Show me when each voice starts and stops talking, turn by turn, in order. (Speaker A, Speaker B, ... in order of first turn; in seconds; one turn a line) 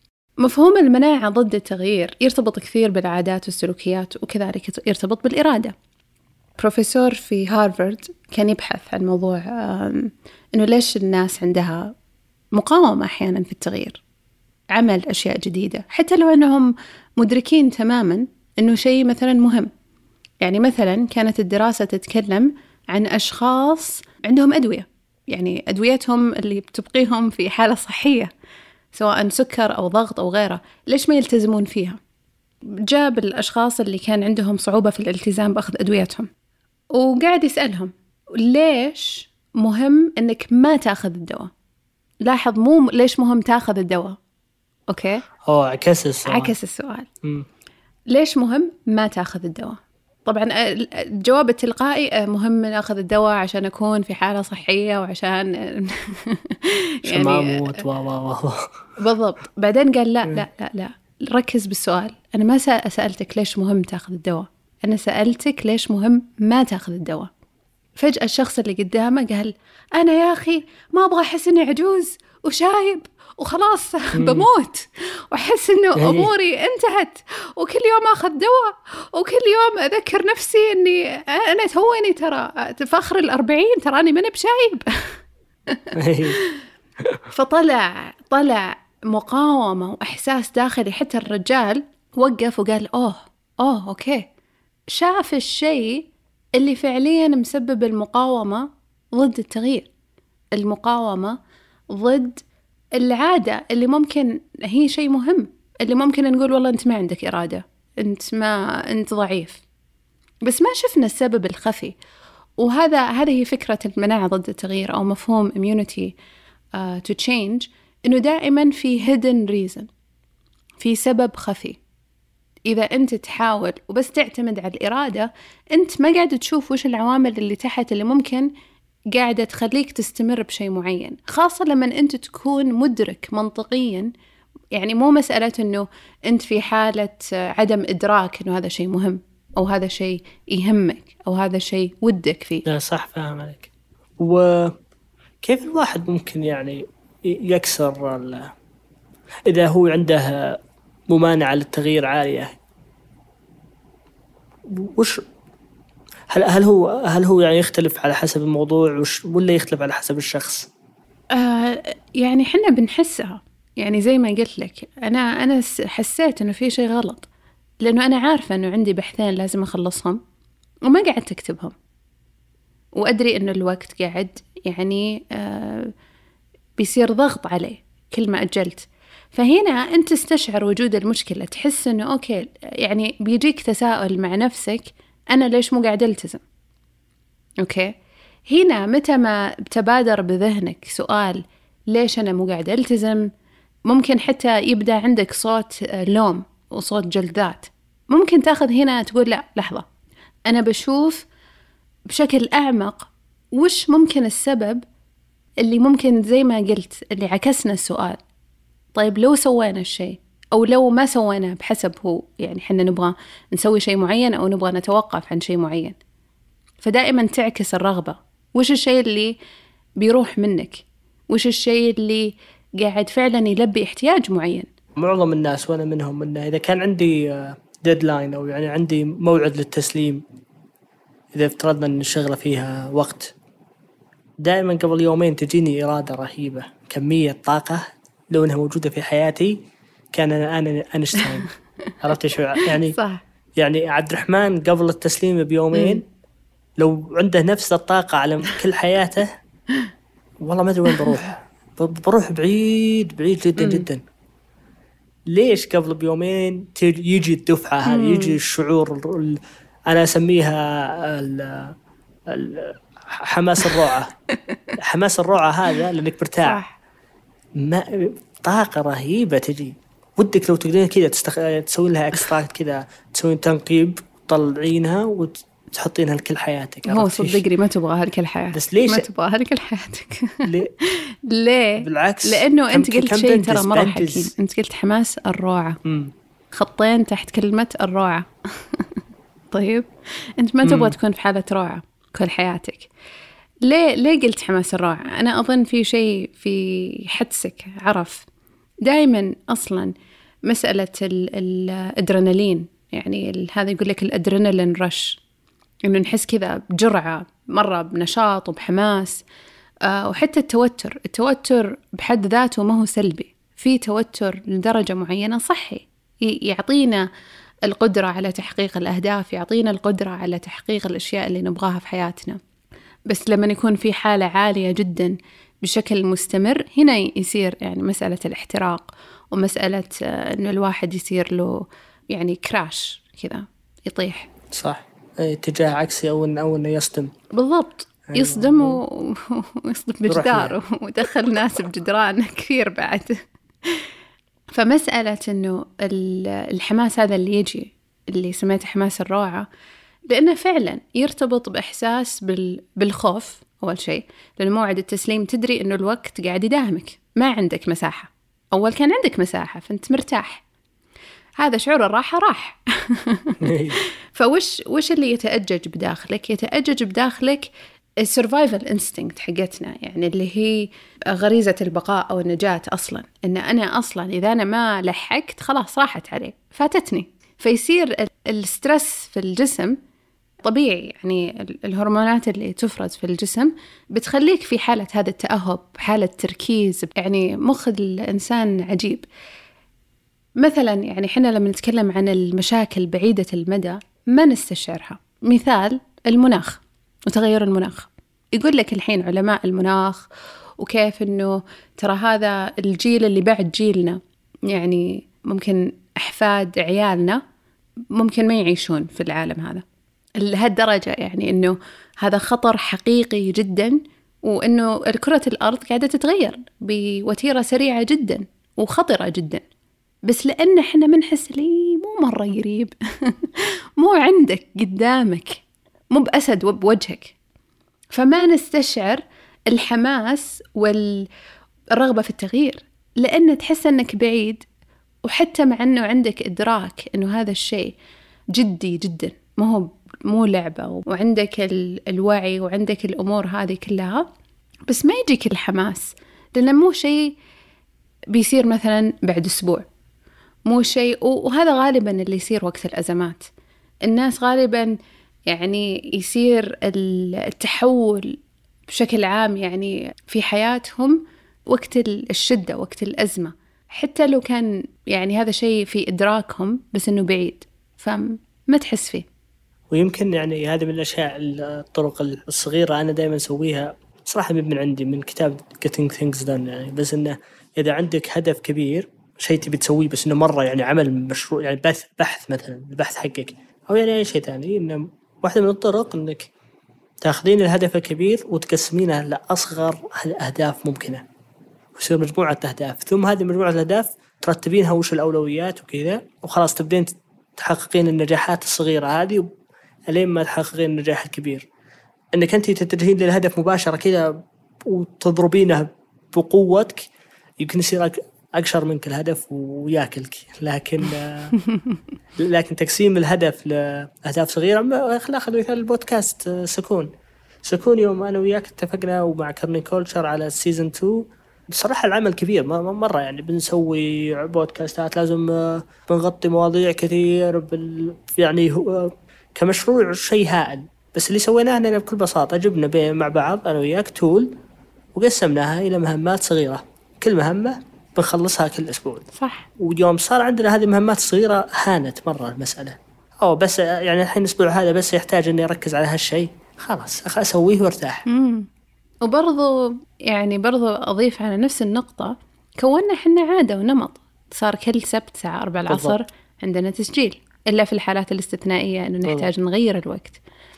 Speaker A: 0.4-5.7
Speaker A: 6.6-11.9
Speaker A: 12.5-14.0
Speaker A: 14.7-19.7
Speaker A: 20.4-28.3
Speaker A: 28.9-32.0
Speaker A: 32.8-36.3
Speaker A: 36.9-41.5
Speaker A: 42.2-44.2
Speaker A: 44.9-45.2
Speaker B: 45.5-46.5
Speaker A: 46.3-47.1
Speaker A: 48.1-57.8
Speaker B: 57.1-58.8
Speaker A: 59.0-67.3
Speaker A: 68.0-85.2
Speaker B: 74.2-74.5
Speaker B: 76.0-76.3
Speaker A: 85.7-86.6
Speaker B: 85.9-86.4
Speaker A: 87.3-94.2
Speaker A: 94.9-99.9
Speaker A: 100.5-101.4
Speaker A: 101.9-102.4
Speaker A: 103.0-109.6
Speaker A: 110.4-112.0
Speaker A: 112.6-116.1
Speaker A: 116.7-119.9
Speaker A: 120.8-121.8
Speaker A: 122.7-128.5
Speaker A: 129.1-134.1
Speaker A: 134.7-142.7
Speaker B: 142.7-144.7
Speaker B: 145.4-148.5
Speaker B: 149.5-150.6
Speaker B: 151.1-152.6
Speaker B: 154.7-155.2
Speaker B: 156.3-160.7
Speaker A: 161.3-167.3
Speaker A: 167.8-170.2
Speaker A: 170.9-171.7
Speaker A: 173.0-175.9
Speaker A: 176.8-186.4
Speaker A: 187.6-187.9
Speaker A: 188.5-193.3
Speaker A: 193.9-199.9
Speaker A: 200.5-201.3
Speaker A: 202.1-204.8
Speaker A: 205.6-208.2
Speaker A: 208.9-216.0
Speaker A: 216.8-219.3
Speaker A: 220.0-224.7
Speaker B: 225.0-230.2
Speaker B: 231.3-233.3
Speaker B: 234.4-239.6
Speaker B: 240.1-241.5
Speaker B: 242.0-243.0
Speaker A: 242.6-243.2
Speaker B: 243.6-246.1
Speaker A: 245.7-246.0
Speaker B: 246.8-249.4
Speaker B: 250.4-254.0
Speaker A: 253.6-253.9
Speaker B: 255.3-261.7
Speaker A: 257.9-258.4
Speaker B: 262.3-264.1
Speaker B: 264.8-266.6
Speaker A: 266.4-266.8
Speaker B: 267.6-277.4
Speaker A: 276.9-285.8
Speaker B: 278.5-279.1
Speaker B: 280.4-280.7
Speaker B: 281.8-284.3
Speaker B: 285.8-286.1
Speaker A: 286.5-288.8
Speaker A: 289.5-292.9
Speaker B: 290.6-291.0
Speaker A: 293.6-298.3
Speaker A: 298.8-299.9
Speaker A: 300.5-305.2
Speaker A: 305.9-309.2
Speaker A: 309.9-317.1
Speaker A: 317.7-322.4
Speaker A: 323.1-334.3
Speaker B: 334.5-337.1
Speaker A: 337.3-343.9
Speaker B: 338.1-338.8
Speaker B: 340.1-340.6
Speaker A: 344.5-349.5
Speaker A: 350.1-360.4
Speaker A: 361.4-367.5
Speaker B: 363.4-363.8
Speaker A: 368.0-379.8
Speaker A: 380.4-389.1
Speaker A: 390.4-400.1
Speaker A: 400.6-407.2
Speaker A: 407.9-409.6
Speaker A: 410.2-419.4
Speaker A: 420.1-427.2
Speaker A: 427.9-431.1
Speaker A: 431.7-434.4
Speaker A: 435.1-437.8
Speaker A: 438.3-444.1
Speaker A: 444.7-447.2
Speaker A: 448.1-449.7
Speaker A: 450.5-453.3
Speaker A: 453.9-454.8
Speaker A: 455.3-469.1
Speaker B: 469.7-486.3
Speaker B: 487.0-491.0
Speaker B: 491.8-499.3
Speaker B: 499.9-501.5
Speaker B: 502.1-506.9
Speaker B: 507.4-511.4
Speaker A: 511.4-511.8
Speaker B: 512.2-516.9
Speaker B: 517.4-534.4
Speaker B: 534.9-539.1
Speaker A: 539.1-539.5
Speaker B: 539.6-548.0
Speaker A: 548.1-548.5
Speaker A: 549.0-560.2
Speaker B: 555.7-556.0
Speaker B: 559.0-559.3